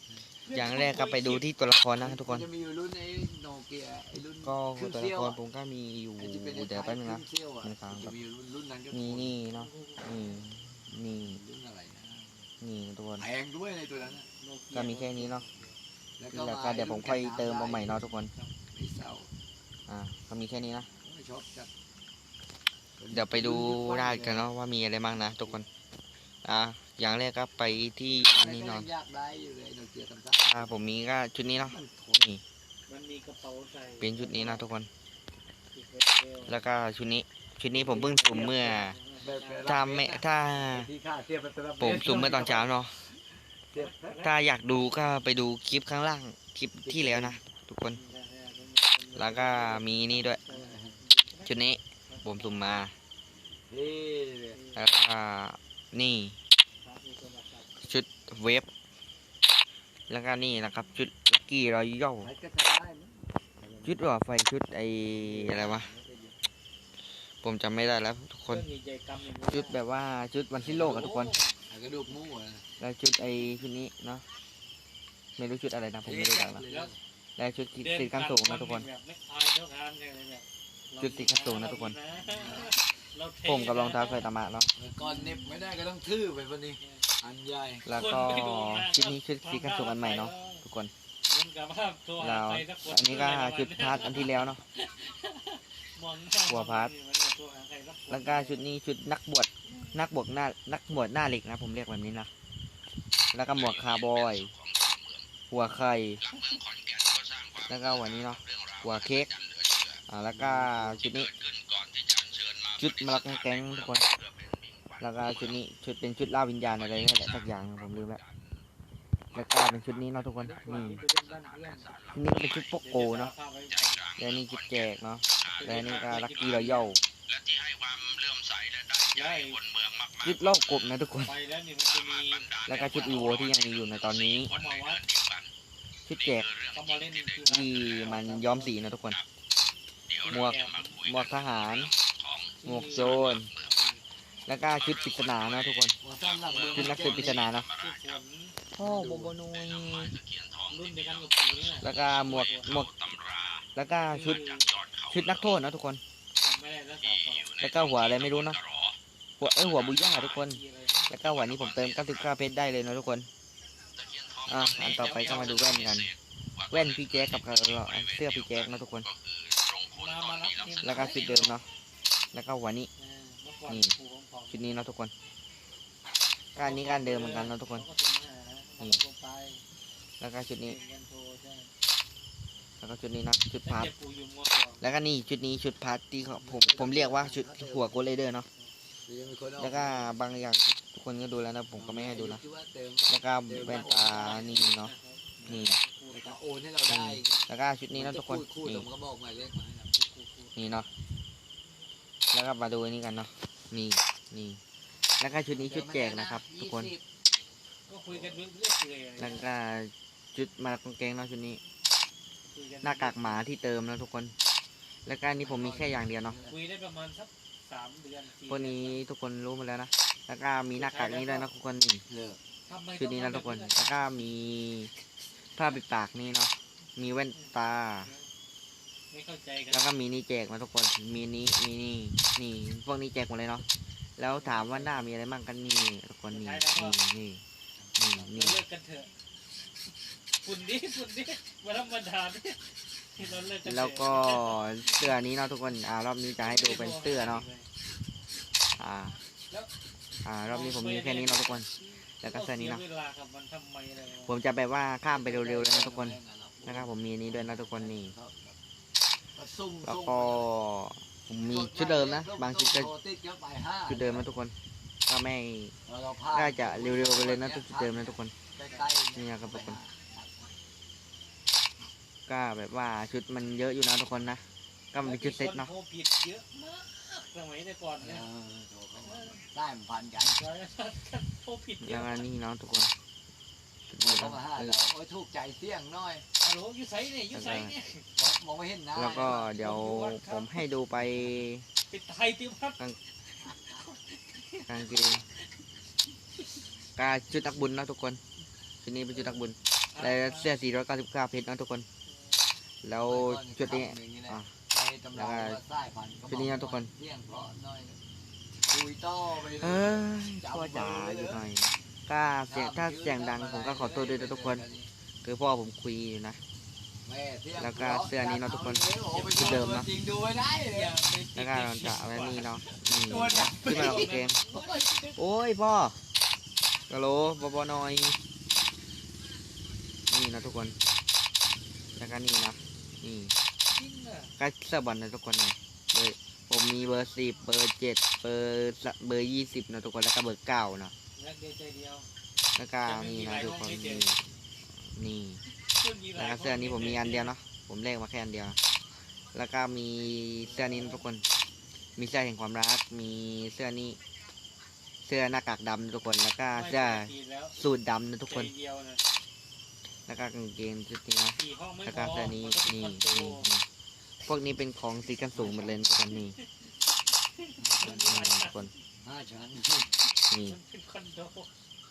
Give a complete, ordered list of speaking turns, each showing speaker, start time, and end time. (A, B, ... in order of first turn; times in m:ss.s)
0:00.4-0:01.4 A
0:00.5-0:02.5 B
0:02.0-0:05.4 C
0:04.4-0:08.2 B
0:06.2-0:09.4 C
0:08.9-0:11.4 B
0:09.5-0:10.5 A
0:11.0-0:12.5 C
0:12.6-0:13.3 B
0:13.2-0:14.3 C
0:14.2-0:15.8 A
0:14.7-0:15.5 B
0:16.2-0:19.3 C
0:16.3-0:18.3 B
0:19.9-0:20.9 B
0:21.0-0:21.7 C
0:23.0-0:24.5 C
0:23.1-0:25.7 B
0:25.2-0:25.6 C
0:26.4-0:28.9 B
0:28.2-0:30.8 C
0:30.4-0:32.4 B
0:31.5-0:32.2 C
0:32.9-0:34.7 A
0:34.0-0:34.9 B
0:35.7-0:36.6 A
0:36.5-0:39.0 B
0:37.8-0:38.4 C
0:37.9-0:39.8 A
0:39.2-0:44.2 C
0:39.7-0:40.9 B
0:41.8-0:43.0 B
0:43.7-0:44.4 A
0:44.2-0:48.0 B
0:46.8-0:47.4 C
0:47.9-0:52.8 A
0:49.2-0:50.4 B
0:50.5-0:51.0 C
0:51.4-0:52.9 B
0:53.7-0:54.6 C
0:54.6-0:54.9 A
0:54.8-0:56.4 B
0:56.8-0:57.8 A
0:57.8-0:58.7 B
1:00.1-1:02.3 B
1:02.2-1:04.0 C
1:03.8-1:05.9 B
1:05.2-1:06.6 C
1:07.4-1:08.6 B
1:08.5-1:09.8 A
1:09.5-1:11.3 B
1:10.6-1:11.1 C
1:10.7-1:11.6 A
1:11.7-1:12.6 C
1:12.8-1:14.2 B
1:15.4-1:16.6 B
1:16.0-1:17.0 C
1:17.4-1:18.9 B
1:17.8-1:24.3 A
1:21.0-1:22.0 B
1:22.2-1:22.8 C
1:23.4-1:24.7 B
1:24.8-1:27.9 C
1:25.0-1:25.7 A
1:27.9-1:30.9 B
1:27.9-1:30.6 A
1:31.3-1:38.6 A
1:32.2-1:34.6 B
1:36.5-1:36.9 B
1:38.1-1:42.3 B
1:39.7-1:40.0 A
1:43.3-1:44.5 B
1:45.5-1:46.2 B
1:46.3-1:46.6 A
1:47.6-1:49.3 B
1:50.1-1:51.3 B
1:50.3-1:51.0 C
1:52.8-1:54.1 B
1:55.0-1:58.2 B
1:59.3-2:01.0 B
2:00.4-2:02.1 A
2:02.1-2:03.3 B
2:02.8-2:04.1 A
2:04.2-2:07.0 B
2:05.5-2:06.9 A
2:09.1-2:09.6 A
2:10.2-2:11.4 B
2:11.2-2:13.5 A
2:12.6-2:14.5 B
2:14.5-2:15.1 A
2:16.1-2:16.5 B
2:16.7-2:18.6 A
2:17.4-2:19.2 B
2:18.1-2:18.7 C
2:20.2-2:21.0 A
2:20.3-2:21.9 B
2:22.6-2:24.0 A
2:22.6-2:23.5 B
2:24.5-2:26.0 B
2:26.0-2:27.4 C
2:26.7-2:28.6 A
2:26.7-2:27.7 B
2:28.7-2:30.2 B
2:28.8-2:29.4 C
2:30.7-2:32.7 A
2:31.8-2:33.0 B
2:33.8-2:34.5 B
2:33.8-2:34.7 A
2:35.1-2:36.0 B
2:36.4-2:37.6 A
2:37.6-2:38.6 B
2:39.4-2:43.3 B
2:40.0-2:41.2 A
2:44.4-2:46.1 B
2:44.7-2:46.0 A
2:46.7-2:49.1 B
2:49.9-2:51.6 A
2:50.8-2:51.7 B
2:52.3-2:52.9 B
2:53.0-2:54.8 A
2:53.7-2:54.0 B
2:54.5-2:55.1 B
2:56.6-2:57.9 B
2:56.6-2:59.6 A
3:00.2-3:00.8 B
3:00.6-3:01.7 A
3:02.8-3:03.9 B
3:03.6-3:04.8 A
3:04.8-3:08.5 B
3:06.4-3:08.0 C
3:09.0-3:10.1 C
3:09.6-3:12.4 B
3:11.8-3:14.6 C
3:13.1-3:14.9 B
3:13.8-3:16.4 A
3:15.4-3:19.9 C
3:15.4-3:15.8 B
3:16.9-3:18.9 B
3:19.9-3:20.6 A
3:20.6-3:20.9 B
3:22.3-3:24.6 B
3:25.2-3:26.9 B
3:25.6-3:27.0 C
3:27.9-3:29.5 A
3:29.2-3:31.6 B
3:32.5-3:33.4 A
3:32.8-3:34.3 B
3:35.1-3:36.4 B
3:35.4-3:36.6 C
3:36.5-3:39.0 A
3:38.5-3:42.0 B
3:40.7-3:41.5 A
3:42.1-3:42.4 C
3:42.7-3:44.1 A
3:42.9-3:44.9 B
3:45.6-3:48.1 B
3:47.3-3:48.3 A
3:49.1-3:49.9 A
3:49.7-3:53.6 B
3:54.2-3:57.4 B
3:54.3-3:55.0 A
3:56.3-3:57.0 A
3:57.8-3:58.4 C
3:58.0-3:58.6 B
3:58.3-3:59.1 A
4:00.4-4:05.1 A
4:03.2-4:03.5 C
4:03.6-4:07.5 B
4:06.4-4:07.7 A
4:08.8-4:09.2 B
4:10.2-4:11.7 B
4:10.5-4:11.7 A
4:12.2-4:14.4 A
4:12.2-4:12.8 B
4:14.2-4:18.1 B
4:15.1-4:18.6 C
4:19.4-4:20.5 C
4:19.8-4:22.9 B
4:21.4-4:24.3 C
4:23.9-4:24.5 B
4:25.1-4:25.7 B
4:25.9-4:30.5 C
4:26.3-4:28.3 B
4:29.1-4:29.8 B
4:32.3-4:35.7 B
4:35.0-4:38.2 A
4:38.0-4:40.5 C
4:39.0-4:39.4 A
4:40.4-4:42.3 A
4:41.8-4:42.9 B
4:43.9-4:44.8 B
4:44.0-4:46.3 C
4:46.4-4:48.1 A
4:47.3-4:47.8 B
4:48.2-4:49.6 C
4:49.0-4:51.7 B
4:49.2-4:50.7 A
4:51.9-4:52.8 A
4:53.3-4:55.2 A
4:53.4-4:53.8 C
4:54.7-4:55.2 B
4:57.0-4:58.2 B
4:58.8-5:01.9 B
4:59.9-5:00.5 A
5:02.1-5:02.6 A
5:02.8-5:04.5 B
5:03.0-5:08.0 C
5:05.1-5:05.6 B
5:06.3-5:06.9 B
5:08.7-5:11.5 C
5:09.6-5:14.6 B
5:12.5-5:14.9 C
5:15.2-5:16.4 B
5:17.0-5:21.0 C
5:17.6-5:19.9 B
5:19.2-5:19.7 A
5:20.7-5:25.2 A
5:21.4-5:24.4 B
5:22.9-5:24.8 C
5:25.2-5:26.0 B
5:26.9-5:28.2 B
5:30.1-5:30.8 B
5:32.0-5:33.4 B
5:33.7-5:34.3 A
5:34.4-5:40.9 B
5:41.2-5:42.1 A
5:42.6-5:45.4 B
5:42.9-5:44.1 A
5:45.7-5:47.3 A
5:46.2-5:48.6 B
5:49.3-5:51.2 B
5:50.4-5:51.1 C
5:52.0-5:54.0 B
5:55.0-5:58.5 B
5:56.5-5:57.6 A
5:58.3-5:59.0 A
6:00.1-6:03.7 B
6:01.4-6:03.5 A
6:04.2-6:06.4 B
6:05.3-6:05.8 C
6:06.1-6:06.5 A
6:07.4-6:08.8 A
6:07.6-6:08.2 C
6:08.0-6:08.7 B
6:09.0-6:10.0 C
6:10.3-6:10.6 B
6:10.3-6:11.5 A